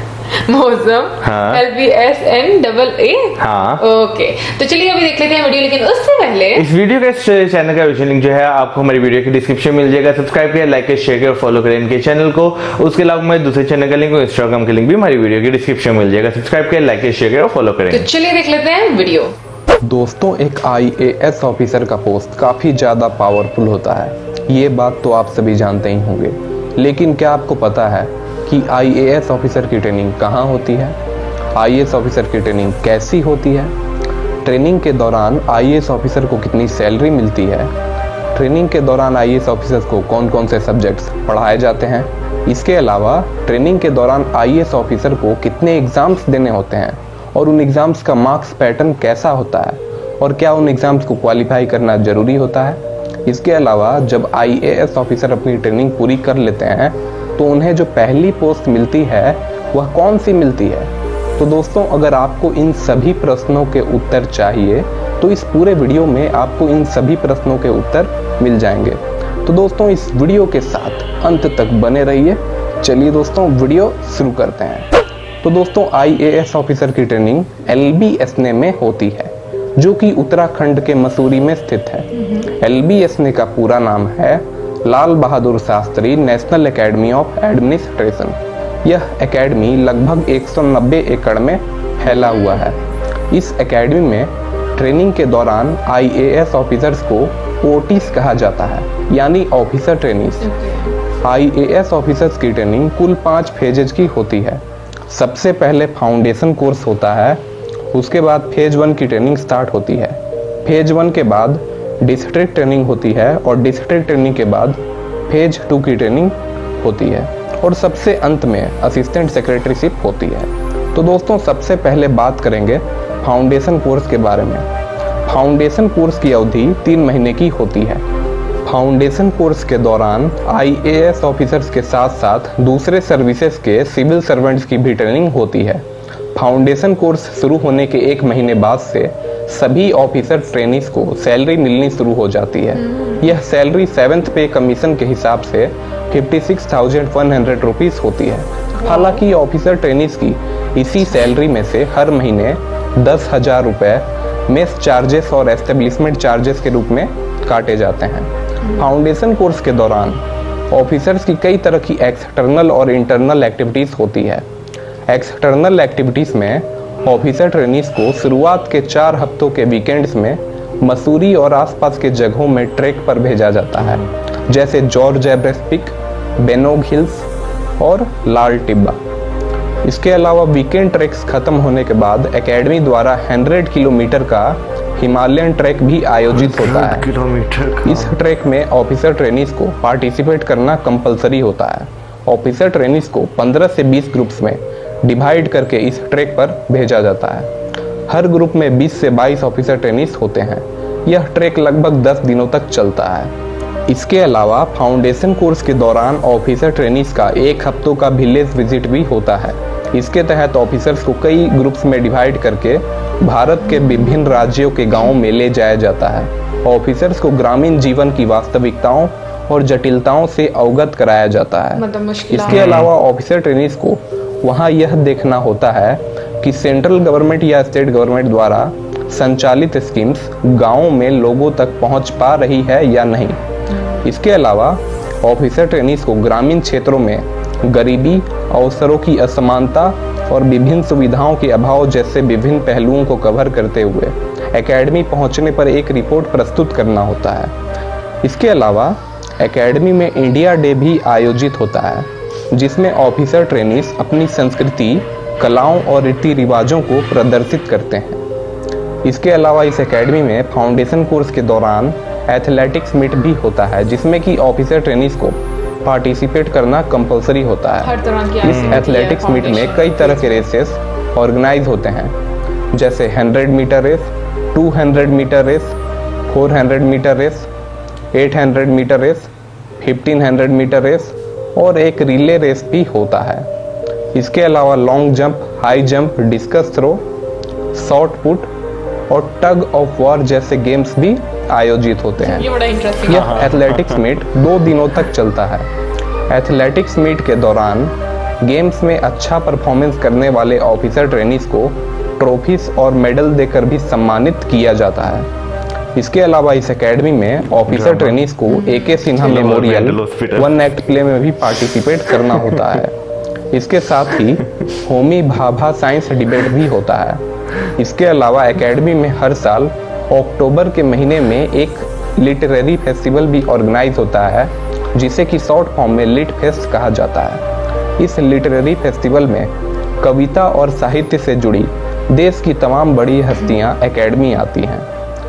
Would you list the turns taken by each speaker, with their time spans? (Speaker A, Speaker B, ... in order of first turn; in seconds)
Speaker A: 0.4-6.7, 17.9-19.4, 92.2-92.6, 100.4-100.9, 142.9-143.2, 148.8-149.2, 221.8-222.7, 267.8-270.4, 292.2-293.4, 308.6-309.1
Speaker B: 1.2-1.6, 3.4-3.8, 6.6-18.1, 186.3-188.2, 222.5-222.9, 268.5-268.8, 293.1-294.0, 307.7-308.2, 309.1-310.7
Speaker C: 19.8-31.0, 31.6-33.8, 34.4-37.7, 38.3-92.8, 93.3-100.5, 101.2-124.7, 125.3-128.1, 128.6-164.5, 165.1-177.3, 177.8-179.0, 179.8-187.1, 187.8-197.5, 198.1-203.3, 203.9-233.4, 233.9-247.6, 248.2-258.2, 259.0-272.1, 272.7-275.8, 276.3-277.5, 278.1-283.5, 284.1-287.1, 287.7-288.5, 289.1-292.5, 293.1-295.7, 296.3-305.3, 305.9-313.0, 313.5-327.4, 328.0-334.9